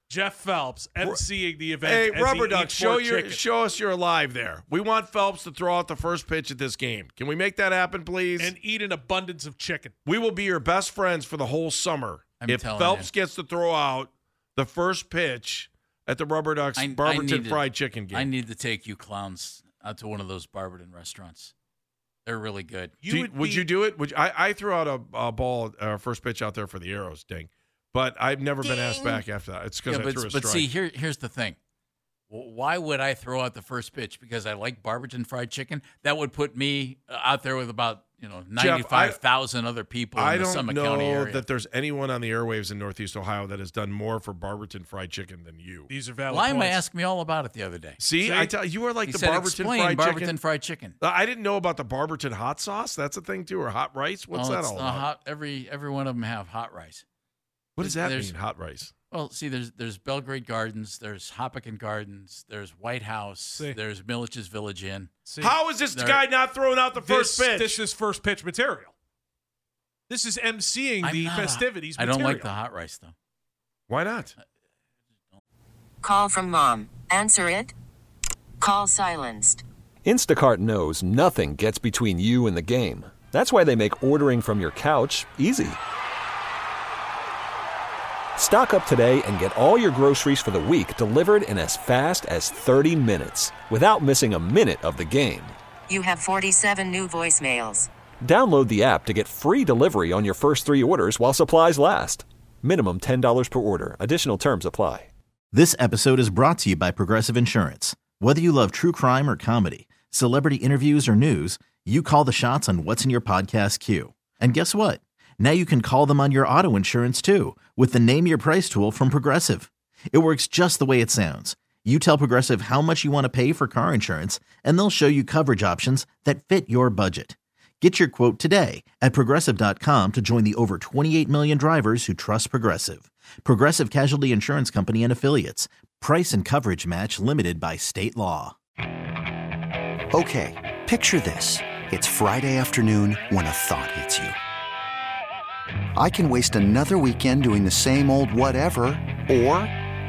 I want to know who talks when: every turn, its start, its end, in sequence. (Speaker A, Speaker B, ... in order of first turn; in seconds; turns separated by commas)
Speaker A: 0.1-3.4, Speaker B: 1.8-8.5, Speaker A: 8.4-9.9, Speaker B: 10.1-18.3, Speaker C: 12.4-13.1, Speaker C: 16.8-21.5, Speaker C: 22.2-22.9, Speaker A: 23.0-23.7, Speaker B: 23.1-30.7, Speaker C: 29.9-31.6, Speaker C: 32.3-41.5, Speaker B: 38.6-39.2, Speaker B: 40.1-45.9, Speaker A: 45.9-46.9, Speaker C: 46.3-48.0, Speaker B: 48.0-50.4, Speaker A: 48.2-48.5, Speaker C: 49.1-51.0, Speaker B: 51.0-55.1, Speaker C: 54.3-57.0, Speaker B: 57.8-58.9, Speaker C: 57.8-58.4, Speaker C: 59.1-65.1, Speaker A: 65.3-65.6, Speaker B: 65.4-67.8, Speaker C: 65.9-66.2, Speaker A: 67.0-68.9, Speaker A: 70.1-72.5, Speaker C: 71.0-73.1, Speaker B: 73.9-74.3, Speaker D: 76.0-77.7, Speaker D: 78.6-79.6, Speaker E: 80.0-85.8, Speaker E: 88.4-95.6, Speaker D: 95.9-97.9, Speaker E: 98.2-105.1, Speaker F: 105.5-138.6, Speaker G: 140.1-144.4, Speaker G: 146.0-149.7